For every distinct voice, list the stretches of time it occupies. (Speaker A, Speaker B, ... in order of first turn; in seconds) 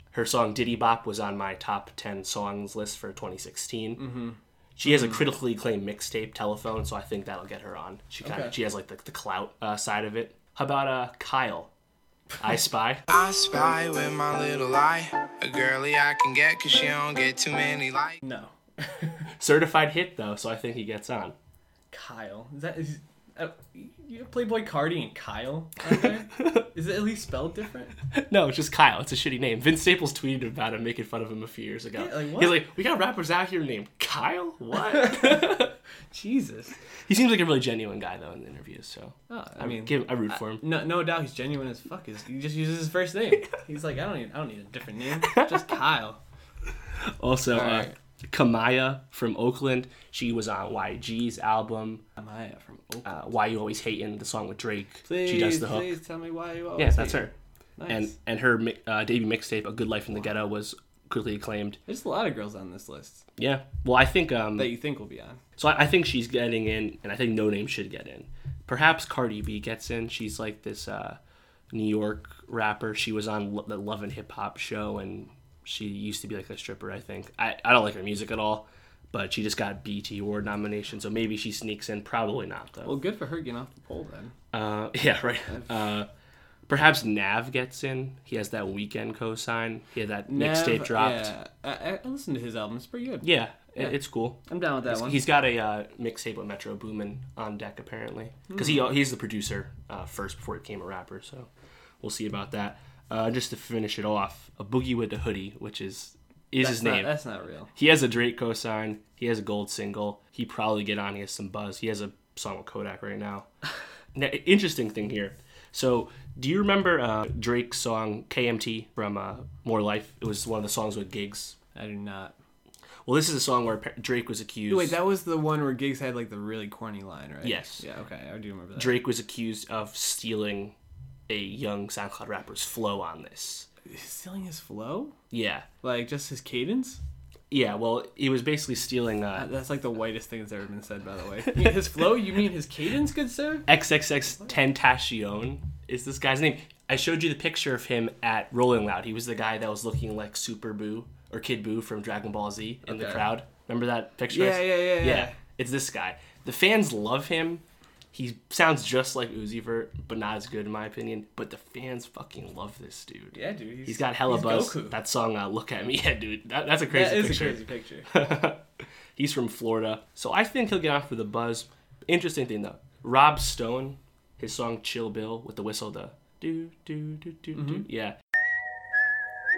Speaker A: 0.1-4.0, 4.8-11.7, 12.4-13.0, 19.4-21.4, 26.4-26.6, 28.1-35.7, 36.9-40.6, 45.2-45.6, 47.0-52.0, 53.0-55.9, 56.8-57.3, 57.9-61.8, 63.4-64.7, 65.6-71.2, 71.7-83.0, 84.5-86.1, 86.7-91.3, 93.2-101.5, 102.0-107.1, 107.7-113.5, 114.1-121.6, 123.0-125.0, 127.4-127.8, 128.7-130.8, 131.3-133.7, 135.3-135.7, 137.5-139.5, 143.7-178.2
Speaker B: 4.0-5.2, 8.2-8.5, 18.2-19.3, 21.9-27.9, 31.9-32.6, 35.0-35.4, 36.1-36.8, 39.3-46.2, 47.5-48.0, 52.2-53.1, 55.0-58.1, 61.9-63.3, 64.5-65.4, 82.8-84.3, 85.5-85.7, 90.3-95.2, 98.5-98.8, 106.6-107.7, 121.7-122.3, 124.7-129.0, 133.8-135.2, 135.8-137.0, 139.3-143.7, 152.8-153.3, 154.3-155.4, 163.3-165.0, 166.9-168.1, 177.5-177.9
Speaker C: 13.1-18.2